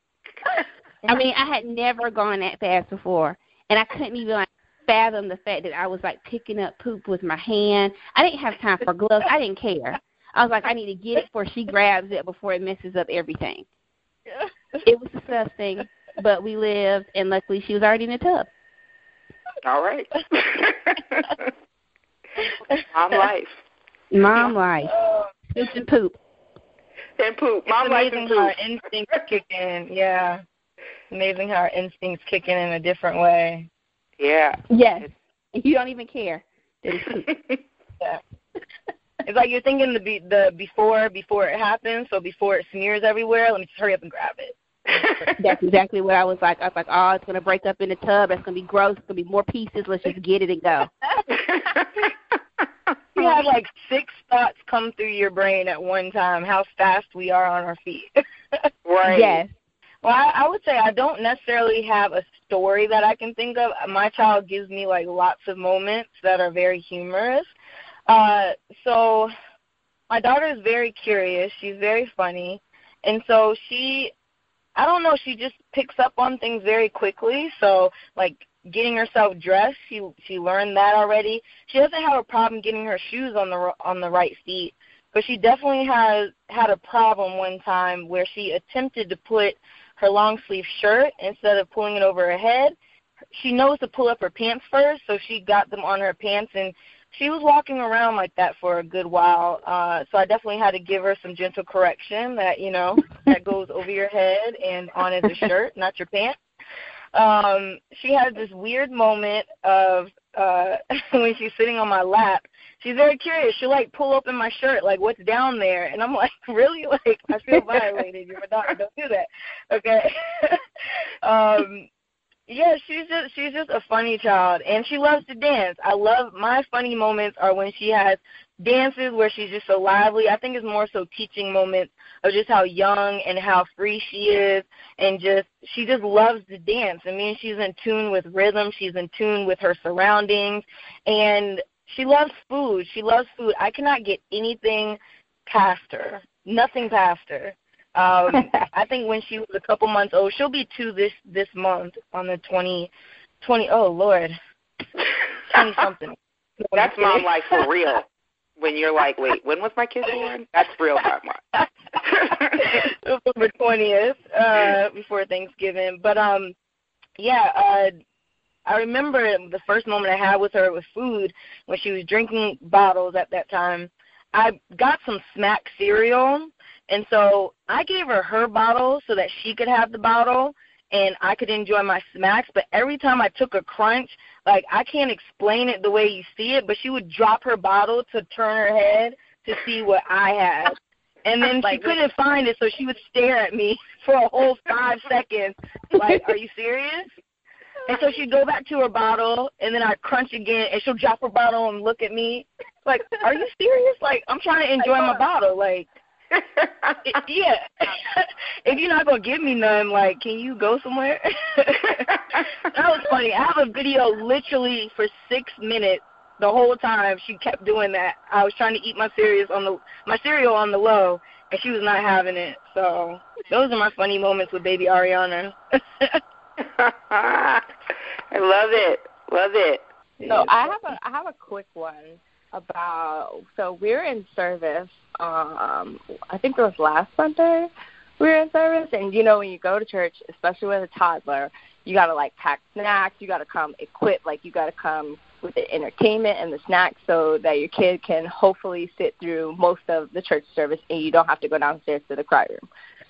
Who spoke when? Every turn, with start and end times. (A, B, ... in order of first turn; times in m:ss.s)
0:01.0-0:13.6 A
0:14.8-0:18.5 A
0:19.6-0:21.5 B
0:22.9-0:23.6 B
0:24.1-0:24.9 A
0:24.9-0:25.3 C
0:25.5-0:26.2 A
0:27.2-0:28.5 B
0:27.7-0:30.4 C
0:31.1-0:33.7 C
0:34.2-0:34.6 B
0:34.7-0:37.3 A
0:39.2-0:45.3 C
0:44.9-0:45.3 B
0:45.4-0:50.9 A
0:51.3-0:52.1 B
0:53.1-0:58.7 C
0:58.8-0:59.4 B
0:59.0-0:59.5 A
1:00.0-1:07.5 C
1:08.1-1:09.3 C
1:10.1-1:14.1 C
1:14.8-1:32.7 C
1:33.3-1:46.3 C
1:47.1-2:00.6 C
2:01.2-2:01.9 C
2:02.5-2:34.3 C
2:35.5-2:37.6 C
2:36.7-2:38.0 B
2:38.6-2:42.8 B
2:42.6-2:46.5 C
2:47.2-2:47.9 C
2:48.7-3:17.1 C
3:11.6-3:12.0 D
3:17.8-3:25.9 C
3:26.3-3:27.0 B
3:27.0-3:46.2 C
3:46.6-3:47.6 B
3:48.3-3:49.8 B
3:50.2-3:50.5 C
3:50.3-4:12.6 D